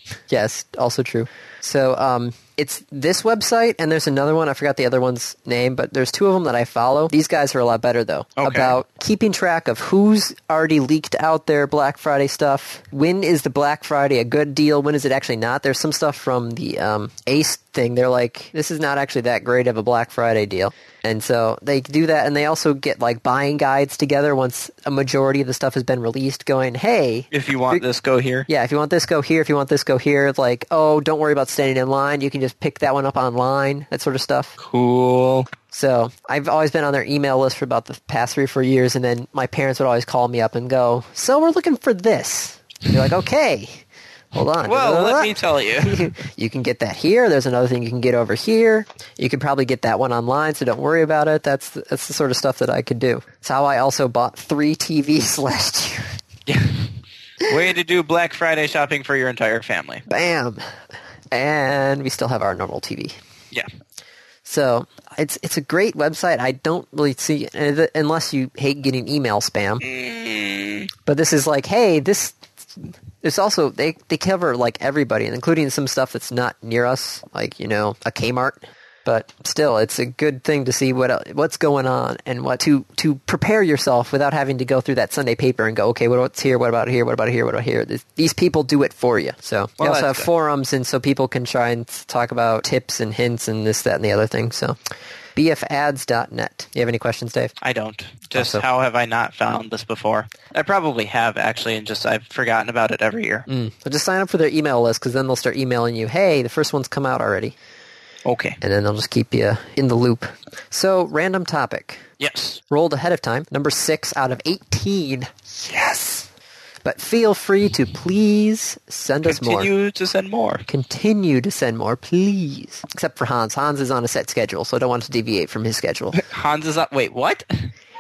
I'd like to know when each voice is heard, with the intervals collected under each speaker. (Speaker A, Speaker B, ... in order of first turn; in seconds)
Speaker A: 0.3-27.8, 28.5-34.5, 35.7-56.2, 60.1-60.6, 61.3-63.2, 64.5-69.8, 71.1-94.8, 95.3-97.5, 98.3-98.6, 103.5-107.6, 108.6-112.0, 112.7-116.3, 116.8-119.7, 120.7-126.2
Speaker B: 8.4-8.8, 27.3-28.5, 34.6-35.5, 44.6-46.1, 56.5-56.9, 57.4-60.0, 69.8-70.9, 89.8-90.3, 97.6-103.5, 108.2-108.6, 112.2-112.6, 119.2-120.7, 126.1-127.7